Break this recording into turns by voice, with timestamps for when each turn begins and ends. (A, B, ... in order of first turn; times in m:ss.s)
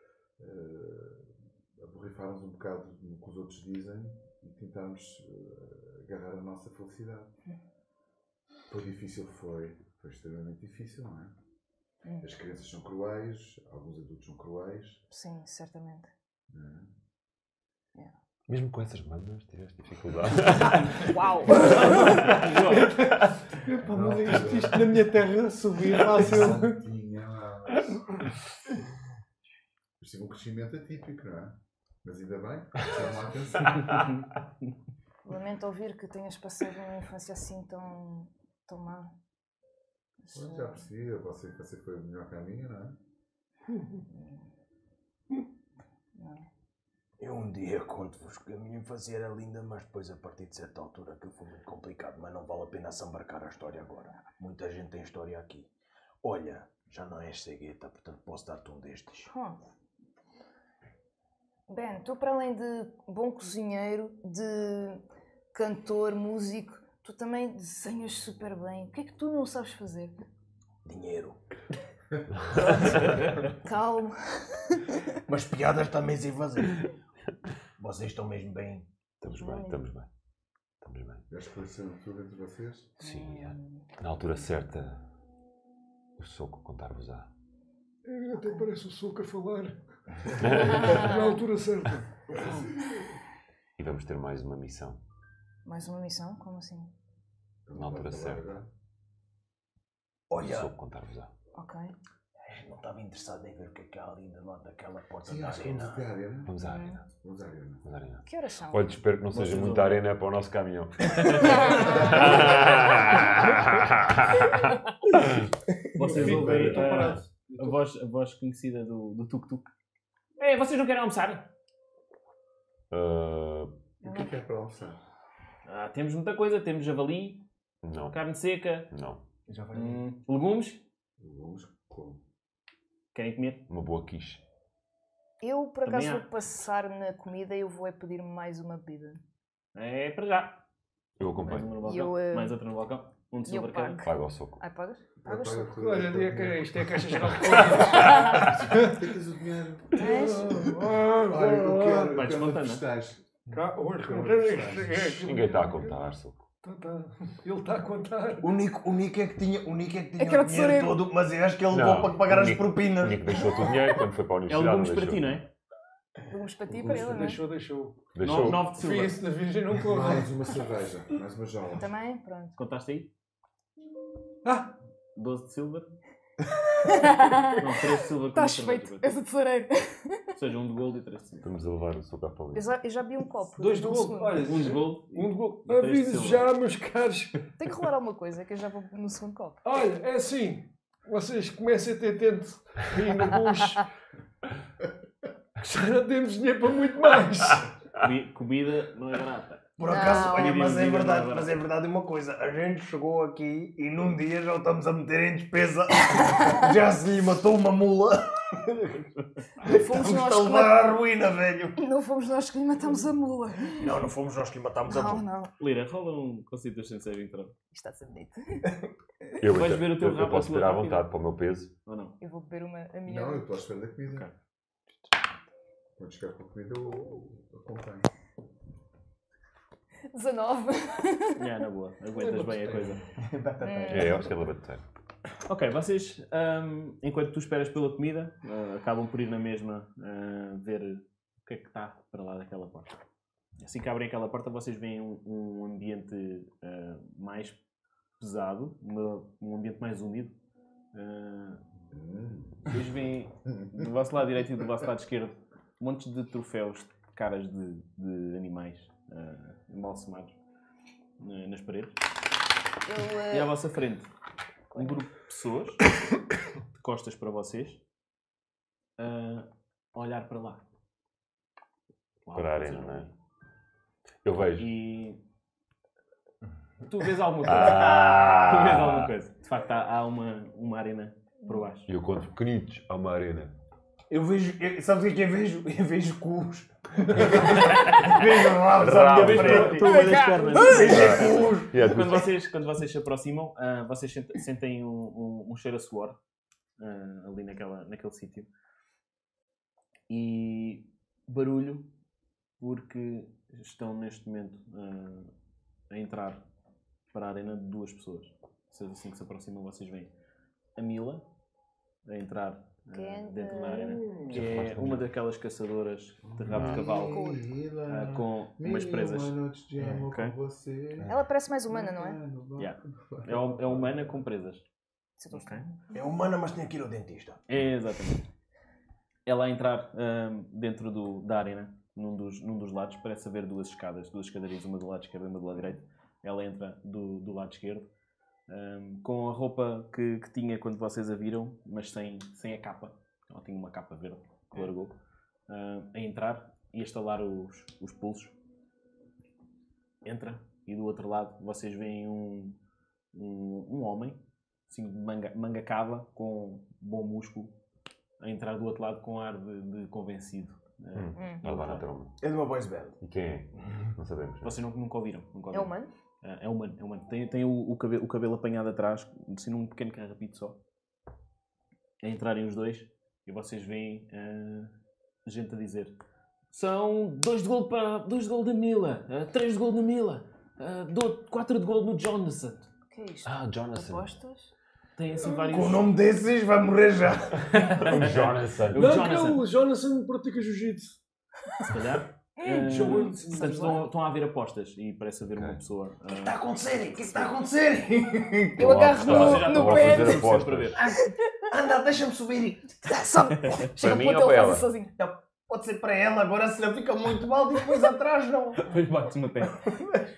0:00.4-0:07.3 A
0:08.7-0:11.3 A
0:12.0-0:12.3 B
0:12.2-0:15.0 A
0:15.1-0:16.1 B
0:16.5-0:16.9 A
0:18.5-0:21.2 C
0:21.0-0:22.0 B
0:21.4-0:22.9 D
0:21.5-0:26.8 E
0:23.8-0:25.2 A
0:26.1-0:28.3 A
0:30.0-0:34.0 A
0:33.9-0:34.2 D
0:35.2-0:39.1 B
0:40.2-0:40.8 B
0:40.3-0:43.0 A
0:44.1-0:44.5 B
0:46.1-0:46.4 B
0:47.2-0:55.7 F
0:56.2-0:59.3 F
0:59.3-0:59.6 B
1:01.7-1:05.0 B
1:05.5-1:10.1 B
1:10.8-1:11.4 F
1:12.6-1:15.2 B
1:12.6-1:13.0 C
1:15.3-1:16.8 F
1:17.8-1:18.9 F
1:19.2-1:20.1 C
1:19.3-1:19.8 B
1:20.8-1:21.2 C
1:21.3-1:22.9 A
1:23.0-1:23.8 B
1:23.0-1:25.0 C
1:26.2-1:27.3 C
1:28.0-1:32.5 E
1:30.4-1:31.2 C
1:30.8-1:31.3 B
1:32.3-1:32.7 A
1:33.8-1:35.0 C
1:35.6-1:36.9 B
1:37.6-1:38.7 A
1:37.7-1:38.6 C
1:40.3-1:40.7 F
1:40.4-1:41.3 C
1:41.5-1:41.9 B
1:42.4-1:46.0 F
1:45.2-1:46.5 A
1:46.4-1:47.0 C
1:46.6-1:47.0 B
1:47.2-1:47.8 A
1:47.8-1:55.4 C
1:48.2-1:49.0 B
1:49.3-1:49.9 D
1:51.2-1:51.7 D
1:51.4-1:52.4 B
1:55.9-1:59.7 D
1:56.0-1:57.8 E
1:56.1-1:57.0 A
2:00.4-2:01.5 D
2:02.9-2:03.7 C
2:04.0-2:05.0 A
2:04.0-2:04.3 B
2:05.6-2:07.4 D
2:07.8-2:08.1 C
2:08.1-2:08.9 D
2:08.9-2:09.2 C
2:09.5-2:10.0 F
2:09.7-2:10.8 D
2:11.2-2:12.2 A
2:13.1-2:13.6 D
2:13.7-2:14.4 C
2:15.4-2:19.2 B
2:15.8-2:16.3 D
2:19.7-2:20.6 D
2:21.2-2:21.7 C
2:21.3-2:24.0 D
2:21.8-2:22.6 B
2:23.5-2:25.7 B
2:24.0-2:24.6 C
2:25.2-2:27.0 A
2:25.7-2:29.0 E
2:27.6-2:35.2 A
2:28.0-2:28.5 B
2:30.0-2:30.5 B
2:30.0-2:32.1 E
2:32.0-2:32.8 D
2:33.5-2:36.0 E
2:35.0-2:36.4 C
2:36.6-2:38.6 E
2:38.4-2:43.7 F
2:40.2-2:41.0 B
2:41.7-2:45.4 C
2:44.5-2:45.5 D
2:46.3-2:47.4 B
2:46.7-2:50.4 E
2:48.1-2:48.7 C
2:48.2-2:49.2 D
2:49.7-2:51.9 A
2:51.8-2:52.5 B
2:52.6-2:53.1 D
2:54.4-2:54.7 E
2:55.2-2:55.9 D
2:56.8-3:00.3 B
2:57.6-2:59.1 D
3:00.4-3:01.5 D
3:01.4-3:02.7 C
3:02.5-3:04.8 B
3:03.6-3:07.5 E
3:04.3-3:06.5 D
3:07.6-3:09.6 B
3:09.6-3:13.9 E
3:15.6-3:17.7 E
3:18.0-3:21.6 D
3:19.8-3:29.0 F
3:19.8-3:20.6 B
3:29.6-3:31.8 F
3:29.6-3:30.9 B
3:31.8-3:34.1 B
3:33.8-3:35.2 F
3:34.9-3:35.5 B
3:35.6-3:37.6 D
3:37.7-3:38.7 B
3:39.4-3:41.7 C
3:39.5-3:41.1 D
3:41.8-3:42.2 D
3:42.2-3:43.5 B
3:43.0-3:44.3 A
3:46.0-3:48.1 A
3:50.1-3:51.5 B
3:51.3-3:53.1 D
3:52.6-3:54.3 F
3:53.6-3:54.2 B
3:53.9-3:54.8 C
3:55.4-4:03.0 D
4:03.6-4:07.6 D
4:08.2-4:10.4 D
4:10.9-4:11.6 D
4:11.9-4:12.9 A
4:12.6-4:20.4 D
4:13.4-4:13.9 A
4:21.2-4:22.0 D
4:22.8-4:23.5 B
4:23.3-4:24.1 D
4:24.7-4:25.1 B
4:24.7-4:25.8 D
4:26.7-4:27.8 D
4:29.0-4:30.6 D
4:32.2-4:33.1 D
4:32.3-4:33.1 C
4:34.2-4:34.7 C
4:34.6-4:35.2 D
4:36.8-4:41.9 D
4:37.4-4:39.1 C
4:37.5-4:38.7 F
4:41.4-4:41.7 B
4:41.9-4:43.5 C
4:44.1-4:51.8 F
4:47.6-4:48.1 D
4:48.7-4:49.9 C
4:49.1-4:56.2 D
4:49.8-4:50.9 B
4:50.8-4:52.3 C
4:56.8-4:58.5 D
5:00.1-5:01.9 D
5:02.6-5:05.3 D
5:05.9-5:06.4 D
5:07.1-5:10.1 D
5:10.8-5:11.2 D
5:12.0-5:17.2 D
5:12.9-5:14.0 B
5:14.3-5:15.1 C
5:16.2-5:21.1 A
5:16.5-5:16.8 C
5:16.8-5:17.4 B
5:17.9-5:20.3 D
5:21.0-5:22.2 B
5:21.7-5:24.2 A
5:22.6-5:24.6 D
5:25.2-5:25.9 B
5:25.3-5:25.7 D
5:25.9-5:27.4 F
5:27.5-5:28.2 D
5:29.2-5:37.9 D
5:38.5-5:45.0 D
5:45.5-5:48.3 D
5:50.0-5:52.6 D
5:53.1-5:57.5 D
5:58.2-6:01.8 D
6:00.9-6:02.2 C
6:01.1-6:01.4 B
6:02.2-6:03.0 F
6:03.0-6:04.6 C
6:04.4-6:10.6 D
6:05.5-6:05.9 B
6:12.0-6:14.7 D
6:15.2-6:15.9 D
6:16.5-6:22.7 D
6:22.9-6:24.5 B
6:23.2-6:24.1 C
6:25.0-6:25.9 D
6:25.4-6:27.6 F
6:27.5-6:29.4 D
6:27.8-6:29.1 C
6:28.7-6:31.0 E
6:31.6-6:36.4 D
6:32.4-6:33.7 B
6:32.5-6:33.9 E
6:35.3-6:35.6 C
6:36.1-6:38.7 F
6:38.6-6:40.3 B
6:38.6-6:40.8 C
6:38.8-6:40.8 D
6:40.8-6:42.9 F
6:41.0-6:41.5 B
6:42.8-6:44.9 B
6:43.8-6:44.6 C
6:45.0-6:48.7 F
6:48.6-6:49.6 D
6:49.6-6:50.0 F